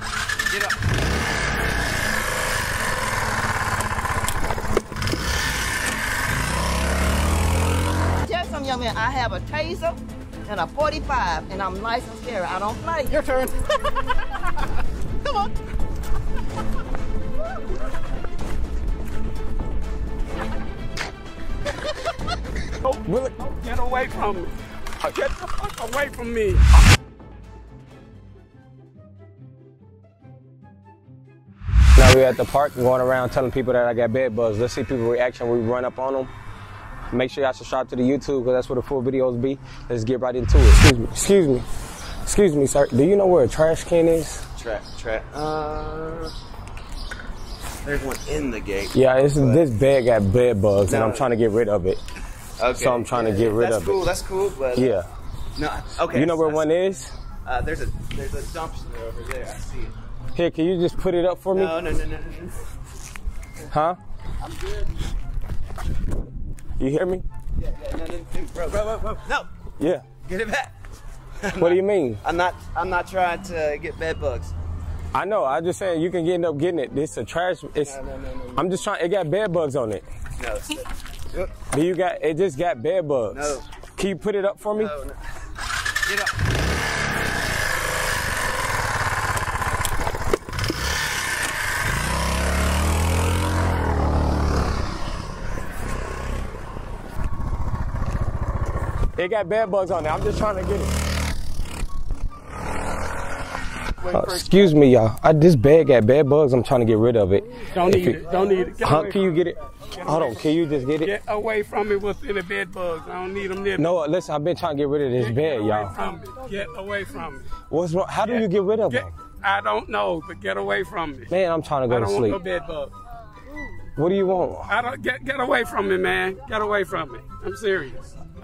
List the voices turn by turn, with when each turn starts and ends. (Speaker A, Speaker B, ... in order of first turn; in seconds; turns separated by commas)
Speaker A: 0.5-0.8, Speaker B: 8.2-13.3, Speaker C: 22.8-26.7, Speaker D: 23.1-23.4, Speaker D: 31.9-36.3, Speaker D: 37.1-41.6, Speaker D: 42.2-44.4, Speaker A: 44.5-46.3, Speaker A: 47.8-49.7, Speaker D: 48.9-52.0, Speaker A: 50.8-51.3, Speaker A: 52.6-55.0, Speaker D: 52.7-54.0, Speaker D: 54.7-55.1, Speaker A: 55.5-56.7, Speaker D: 56.1-57.1, Speaker A: 57.4-59.9, Speaker D: 60.3-61.8, Speaker A: 61.5-62.6, Speaker D: 63.7-64.0, Speaker A: 64.4-64.8, Speaker D: 66.8-67.2, Speaker A: 67.6-69.5, Speaker D: 69.8-70.1, Speaker A: 70.2-70.7, Speaker A: 71.4-74.5, Speaker D: 71.5-72.2, Speaker D: 75.1-78.0, Speaker A: 77.8-78.7, Speaker D: 78.5-80.0, Speaker A: 80.4-81.5, Speaker D: 81.6-84.9, Speaker A: 83.3-83.7, Speaker A: 84.7-85.2, Speaker A: 86.0-86.3, Speaker D: 99.2-100.9, Speaker D: 104.1-111.1, Speaker C: 107.7-113.9, Speaker D: 113.8-115.9, Speaker C: 115.2-117.5, Speaker D: 117.7-119.1, Speaker C: 118.2-121.3, Speaker D: 121.3-122.4, Speaker C: 121.9-122.9, Speaker D: 124.0-124.7, Speaker C: 124.7-128.1